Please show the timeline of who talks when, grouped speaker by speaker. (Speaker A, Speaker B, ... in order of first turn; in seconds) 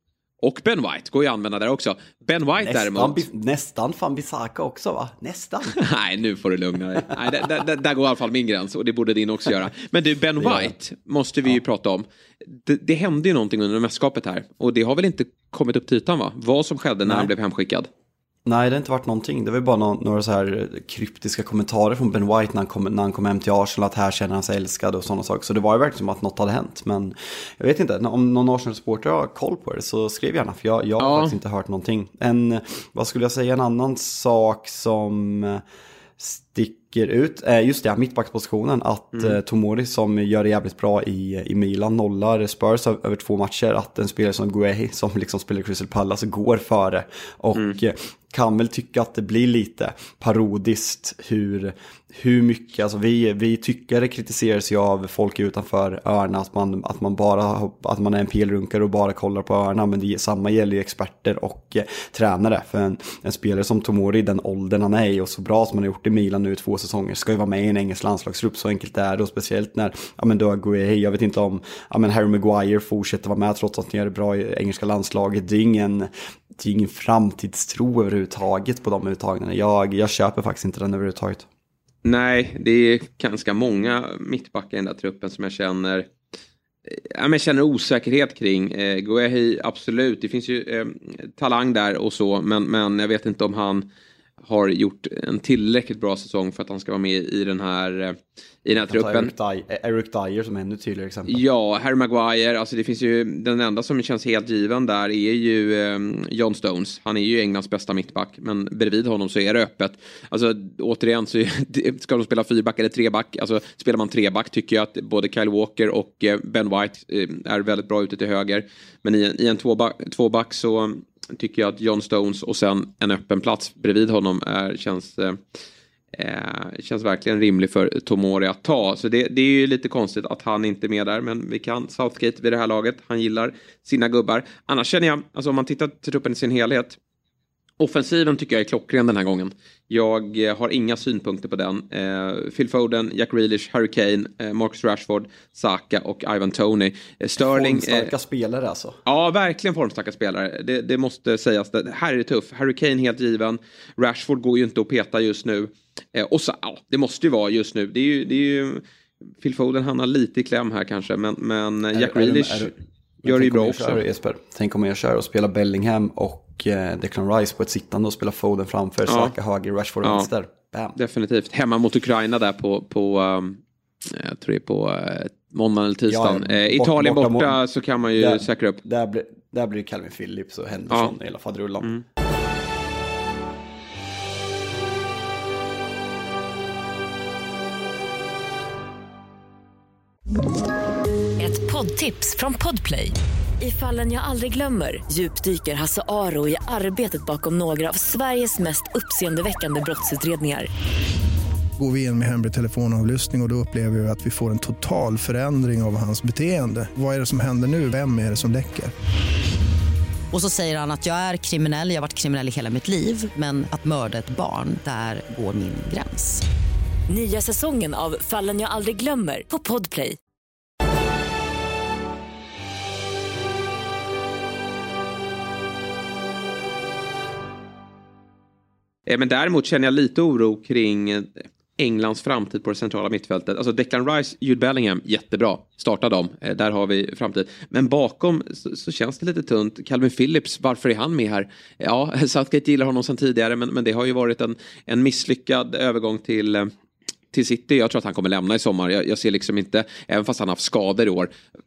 Speaker A: 0.4-3.3, 5.8-17.9, 31.0-31.4, 82.0-86.1, 86.9-93.9, 94.4-99.3, 101.3-125.4, 126.1-137.0, 137.8-148.1, 149.1-158.8, 159.4-164.0, 169.1-169.3, 170.0-170.3, 171.0-178.8, 229.1-246.7, 247.3-251.3
Speaker B: 2.6-5.8, 10.4-10.8, 17.1-17.3, 18.4-35.6, 36.2-81.5, 98.8-101.4, 147.4-149.0, 161.9-171.0, 176.1-177.6, 178.2-181.9
Speaker C: 191.4-200.7, 217.1-220.2
Speaker D: 201.8-208.9
Speaker E: 210.3-216.4